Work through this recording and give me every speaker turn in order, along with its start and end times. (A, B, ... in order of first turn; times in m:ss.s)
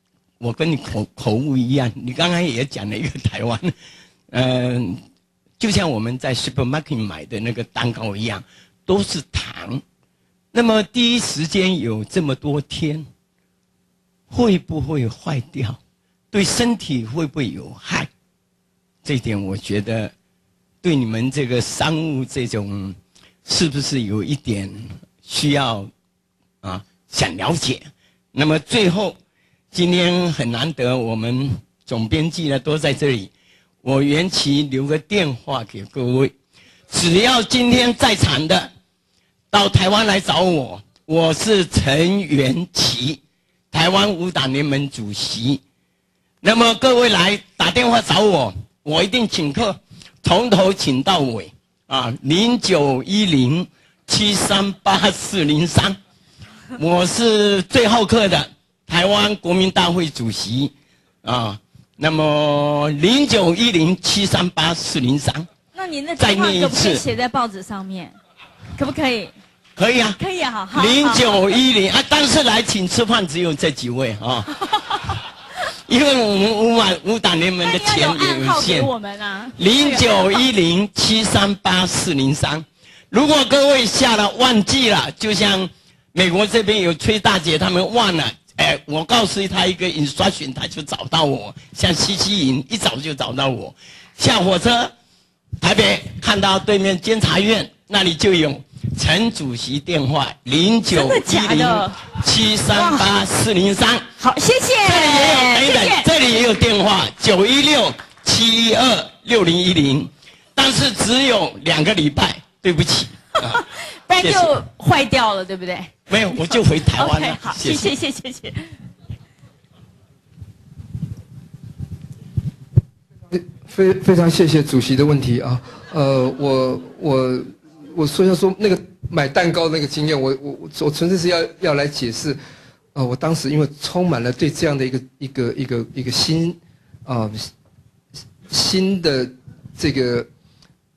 0:00.4-0:03.7 A
0:04.3-0:05.0 A
0:05.6-0:09.8 A
0:10.5-0:13.1 A
0:14.3-0:15.8 A
0:16.3-0:18.1 A
0:19.0-0:20.1 A
0:20.8-0:25.9 A
0:26.6-0:29.2 A
0:29.7-0:33.3 A
0:33.8-0:36.4 A
0:36.9-0:38.7 A
0:39.5-0:43.2 A
0:43.7-0:45.6 A
0:46.4-0:56.0 A
0:56.8-1:05.5 A
1:05.7-1:08.2 B
1:06.2-1:07.0 A
1:08.8-1:09.3 B
1:09.8-1:10.2 A
1:10.2-1:11.4 B
1:10.7-1:15.2 A
1:15.9-1:18.9 A
1:17.6-1:20.5 B
1:19.6-1:34.9 A
1:35.6-1:44.1 A
1:40.9-1:42.0 B
1:42.7-1:43.1 B
1:44.2-1:46.1 B
1:44.8-1:53.6 A
1:53.4-1:58.7 B
1:54.2-1:54.6 A
1:56.1-1:58.0 A
2:03.3-2:12.4 C
2:12.9-2:17.5 C
2:18.5-2:20.3 C